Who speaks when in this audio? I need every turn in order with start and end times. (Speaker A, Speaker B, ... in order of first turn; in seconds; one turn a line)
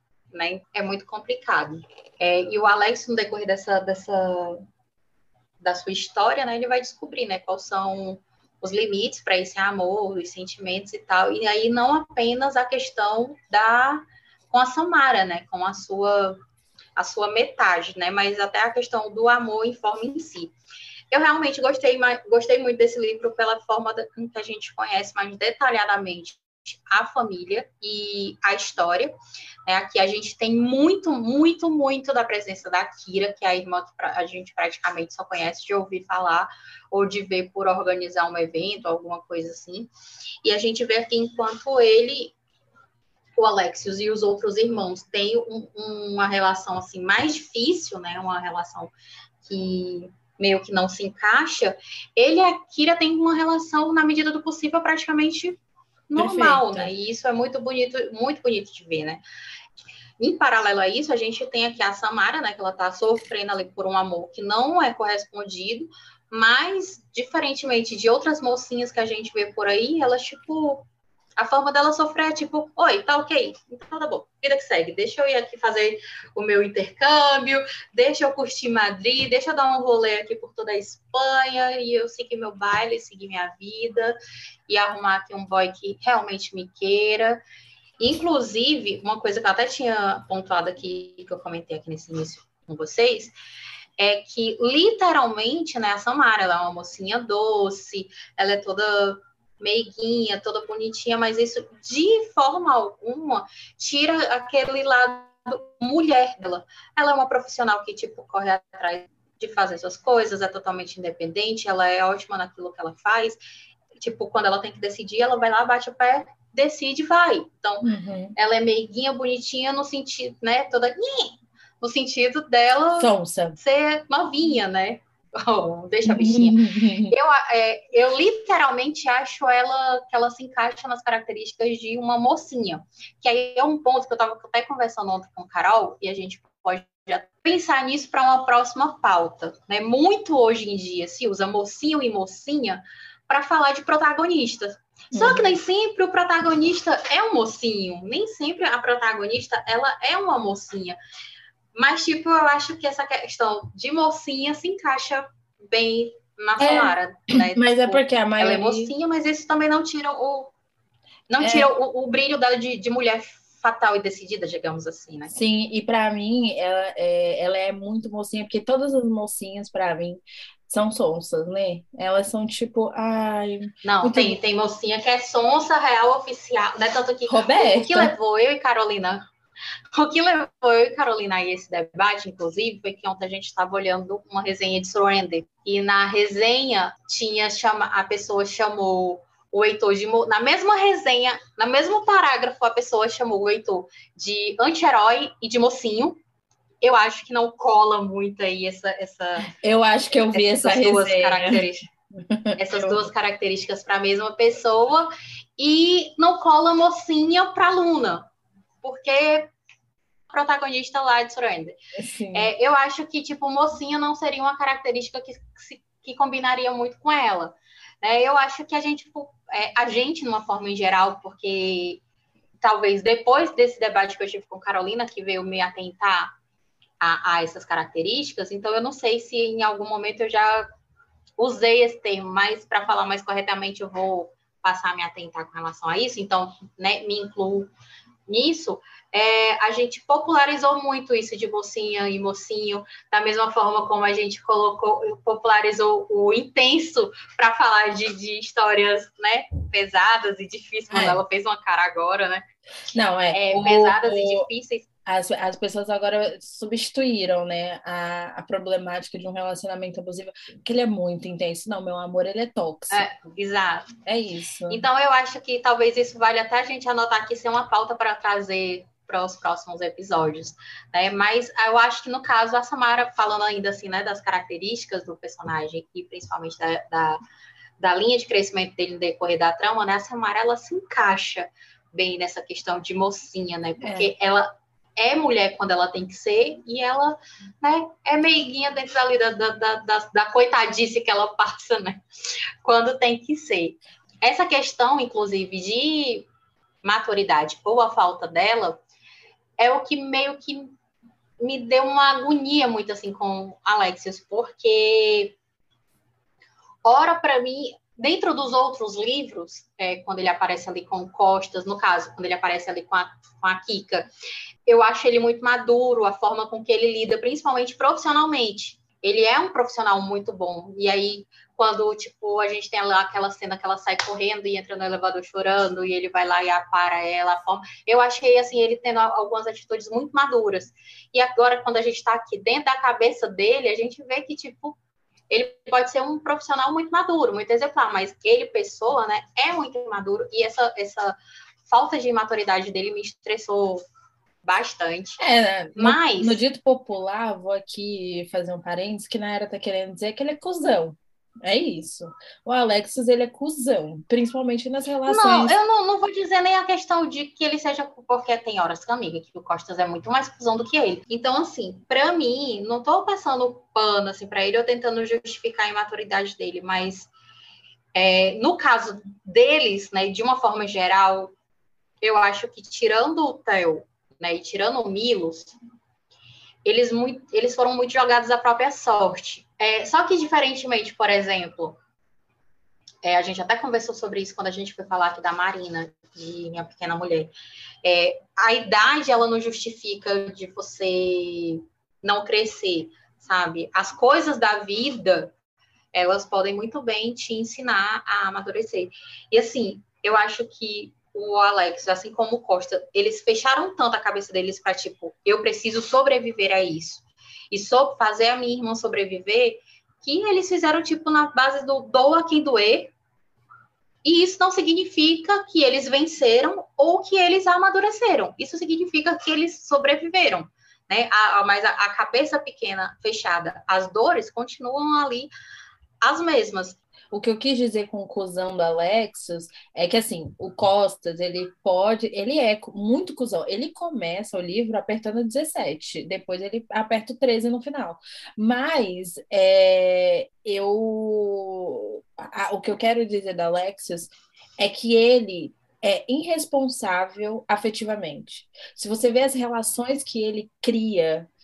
Speaker A: 0.3-4.6
Speaker A: 5.6-16.4
Speaker A: 16.9-20.5
Speaker A: 21.1-29.1
Speaker A: 29.6-39.9
Speaker A: 40.4-42.3
Speaker A: 43.4-48.9
Speaker A: 49.4-59.2
Speaker B: 56.2-56.9
Speaker A: 60.2-70.8
Speaker A: 71.4-84.2
Speaker A: 84.7-87.4
Speaker A: 88.0-93.3
Speaker A: 94.0-113.4
Speaker A: 114.0-151.0
Speaker B: 117.8-118.3
Speaker B: 123.0-123.6
Speaker B: 126.0-127.1
Speaker B: 145.1-145.6
Speaker A: 151.7-160.5
Speaker B: 156.6-158.9
Speaker A: 161.3-165.3
Speaker B: 161.4-161.7
Speaker B: 165.3-174.4
Speaker A: 173.8-179.2
Speaker B: 177.3-178.1
Speaker A: 179.9-196.2
Speaker A: 196.8-199.5
Speaker B: 199.5-201.6
Speaker A: 200.3-201.9
Speaker B: 202.1-203.1
Speaker A: 202.6-208.3
Speaker A: 208.8-209.5
Speaker A: 210.3-211.8
Speaker B: 211.9-212.5
Speaker A: 212.3-222.0
Speaker A: 222.6-226.3
Speaker A: 227.0-230.7
Speaker A: 231.4-237.7
Speaker A: 238.3-252.4
Speaker B: 250.9-251.2
Speaker B: 252.9-254.4
Speaker A: 253.3-254.9
Speaker B: 255.1-263.0
Speaker A: 262.9-263.9
Speaker B: 264.1-264.8
Speaker A: 264.7-277.2
Speaker A: 277.8-292.0
Speaker B: 283.8-284.1
Speaker A: 292.6-296.3
Speaker A: 296.8-298.8
Speaker A: 299.6-300.7
Speaker A: 301.4-305.4
Speaker A: 306.8-314.1
Speaker A: 314.6-334.8
Speaker A: 335.3-343.8
Speaker A: 344.4-345.2
Speaker B: 345.2-355.6
Speaker A: 345.8-346.4
Speaker A: 355.1-367.1
Speaker A: 367.9-371.3
Speaker A: 372.0-375.5
Speaker A: 376.6-381.8
Speaker A: 383.0-387.3
Speaker A: 387.8-395.3
Speaker A: 395.9-412.9
Speaker A: 414.0-425.3
Speaker A: 426.0-426.8
Speaker B: 427.1-451.3